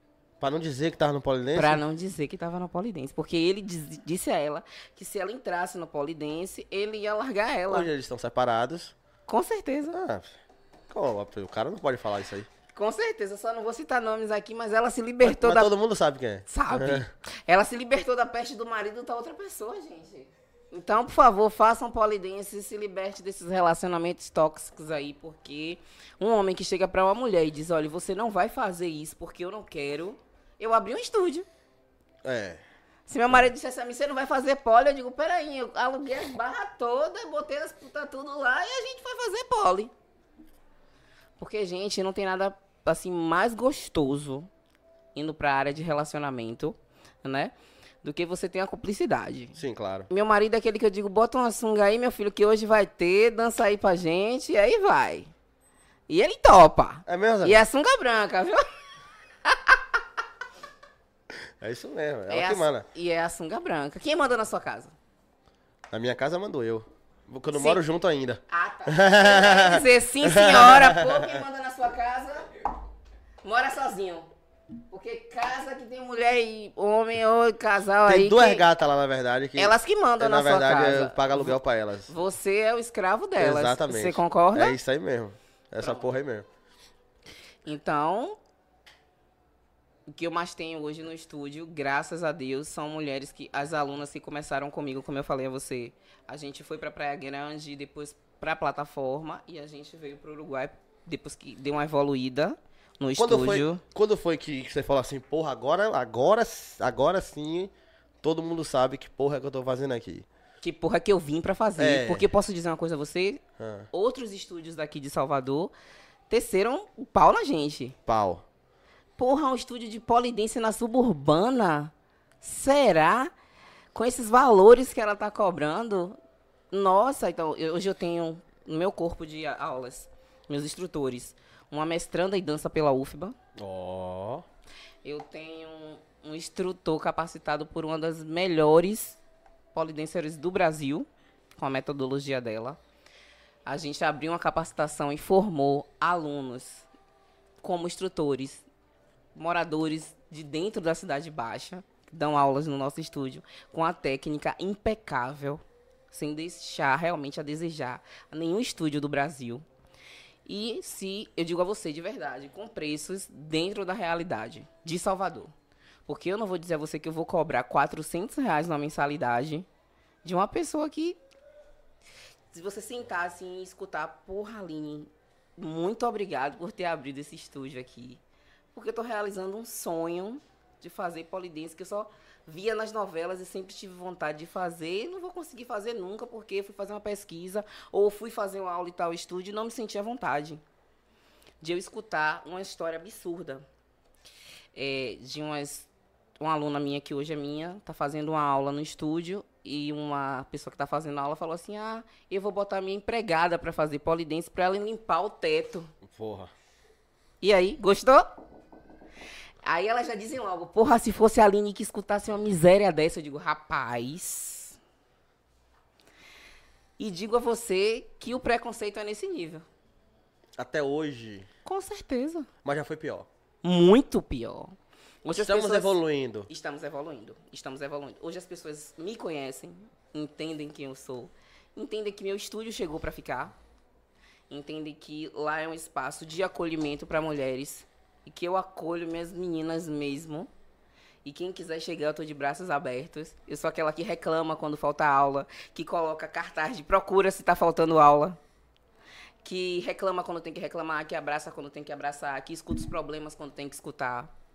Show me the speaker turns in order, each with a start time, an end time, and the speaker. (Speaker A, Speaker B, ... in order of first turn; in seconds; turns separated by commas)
Speaker A: 0.4-1.8, Speaker B: 1.5-7.9, Speaker A: 7.7-8.9, Speaker B: 9.3-10.0, Speaker A: 9.9-10.3, Speaker A: 10.9-12.5, Speaker B: 12.7-15.7, Speaker A: 15.2-17.1, Speaker B: 16.5-31.5, Speaker A: 32.2-32.6, Speaker B: 33.1-39.9, Speaker B: 41.4-44.5, Speaker B: 45.1-49.6, Speaker A: 49.6-50.1, Speaker B: 50.1-55.3, Speaker B: 56.1-58.6, Speaker A: 57.1-57.6, Speaker B: 59.5-60.0, Speaker A: 61.6-62.9, Speaker B: 62.3-64.9, Speaker A: 65.9-71.4, Speaker B: 67.5-67.8, Speaker B: 68.5-72.5, Speaker B: 73.4-74.3, Speaker B: 74.9-78.7, Speaker A: 78.1-82.1, Speaker B: 79.6-84.8, Speaker A: 83.4-86.5, Speaker B: 85.8-86.1, Speaker B: 87.7-88.4, Speaker B: 90.1-103.8, Speaker A: 103.2-110.3, Speaker B: 110.6-113.4, Speaker A: 111.8-112.3, Speaker A: 113.6-113.9, Speaker B: 113.9-115.7, Speaker B: 116.3-118.0, Speaker A: 118.1-118.4, Speaker B: 119.2-123.3, Speaker B: 123.9-126.2, Speaker B: 126.7-133.4, Speaker A: 133.6-134.4, Speaker B: 135.0-139.2, Speaker B: 139.7-141.1, Speaker B: 141.6-142.8, Speaker B: 143.7-146.9, Speaker B: 147.6-148.7, Speaker B: 149.3-159.7, Speaker B: 160.5-165.5, Speaker B: 166.1-169.7, Speaker B: 170.2-171.2, Speaker B: 172.5-178.2, Speaker B: 178.7-190.6, Speaker B: 191.6-193.7, Speaker B: 194.8-195.9, Speaker B: 196.4-205.9, Speaker A: 206.0-206.5, Speaker B: 207.4-208.3, Speaker B: 209.6-214.8, Speaker B: 217.0-219.7, Speaker A: 220.6-221.5, Speaker B: 221.7-222.5, Speaker A: 222.6-223.3, Speaker B: 223.6-226.0, Speaker A: 225.3-226.5, Speaker B: 226.5-233.6, Speaker B: 234.5-240.5, Speaker B: 241.2-248.4, Speaker B: 249.4-254.3